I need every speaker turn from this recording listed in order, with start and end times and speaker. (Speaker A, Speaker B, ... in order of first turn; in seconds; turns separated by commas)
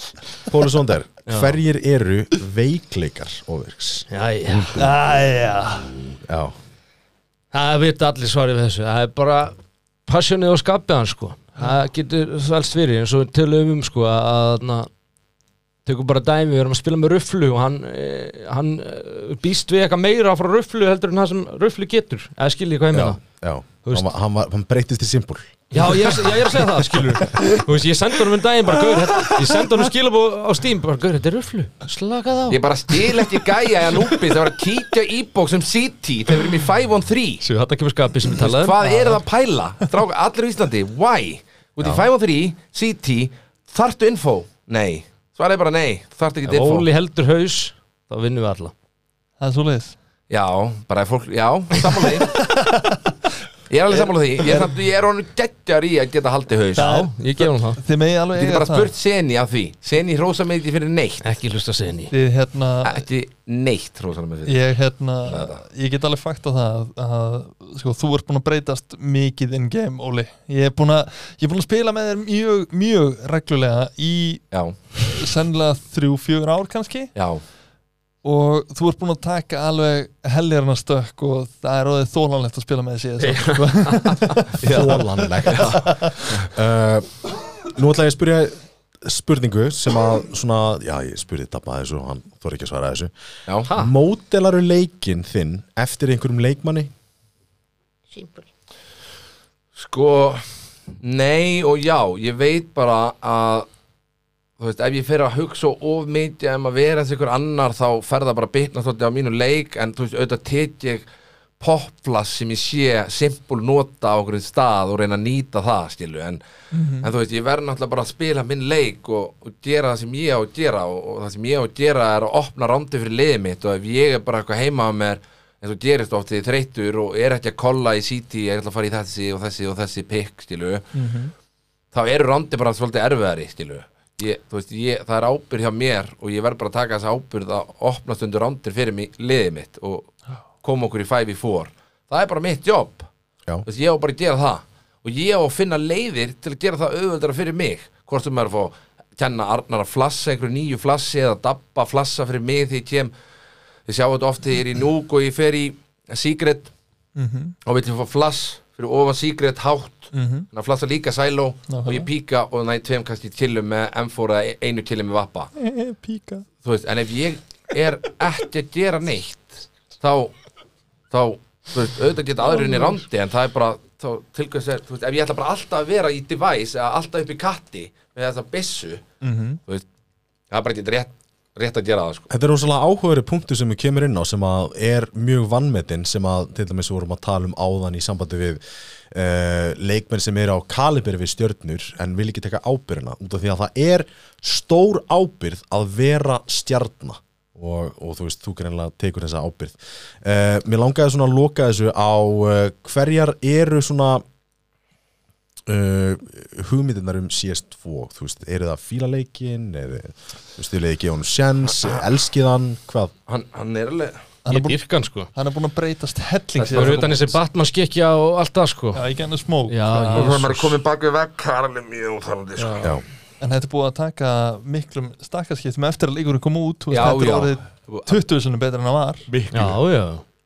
Speaker A: 0.5-4.9, Speaker B: 1.3-1.6, Speaker B: 4.1-4.9, Speaker C: 4.8-5.9, Speaker A: 5.9-6.5, Speaker B: 7.5-14.9, Speaker B: 15.9-23.2, Speaker A: 22.9-26.3, Speaker B: 23.9-24.1, Speaker B: 25.7-33.3, Speaker D: 32.5-37.4, Speaker B: 37.4-39.1, Speaker D: 38.3-46.9, Speaker B: 46.5-48.7, Speaker C: 49.4-50.0, Speaker D: 50.3-52.5, Speaker C: 52.3-53.1, Speaker D: 53.7-56.9, Speaker C: 54.0-54.7, Speaker C: 56.8-58.9, Speaker B: 56.8-57.8, Speaker D: 58.4-61.3, Speaker B: 61.2-62.1, Speaker C: 62.1-63.0, Speaker D: 62.8-64.7, Speaker C: 64.5-74.4, Speaker D: 65.2-65.6, Speaker D: 74.5-74.8, Speaker C: 75.0-77.1, Speaker D: 77.2-77.4, Speaker C: 78.2-86.2, Speaker B: 83.2-84.5, Speaker A: 84.6-93.1, Speaker D: 84.6-86.5, Speaker A: 93.6-96.9, Speaker B: 93.7-93.9, Speaker D: 99.8-100.4, Speaker D: 101.0-103.7, Speaker D: 104.6-111.1, Speaker D: 111.6-116.4, Speaker C: 116.7-117.1, Speaker D: 117.0-130.9, Speaker C: 130.9-131.3, Speaker D: 131.9-143.1, Speaker D: 143.7-153.1, Speaker D: 153.9-156.7, Speaker C: 157.2-157.6, Speaker D: 157.7-165.5, Speaker C: 160.1-160.5, Speaker C: 161.7-162.1, Speaker C: 165.6-166.4, Speaker D: 166.6-170.3, Speaker D: 171.1-179.1, Speaker C: 172.5-173.0, Speaker C: 179.2-179.6, Speaker D: 180.5-182.3, Speaker A: 182.3-204.2, Speaker A: 205.7-213.1, Speaker D: 213.3-214.2, Speaker C: 214.4-214.8, Speaker B: 214.5-215.3, Speaker C: 215.3-217.3, Speaker D: 216.6-217.3, Speaker B: 216.7-219.1, Speaker C: 218.9-220.3, Speaker B: 219.7-220.8, Speaker D: 219.9-223.0, Speaker C: 223.4-229.3, Speaker D: 226.9-228.2, Speaker D: 229.3-229.8, Speaker B: 229.5-230.2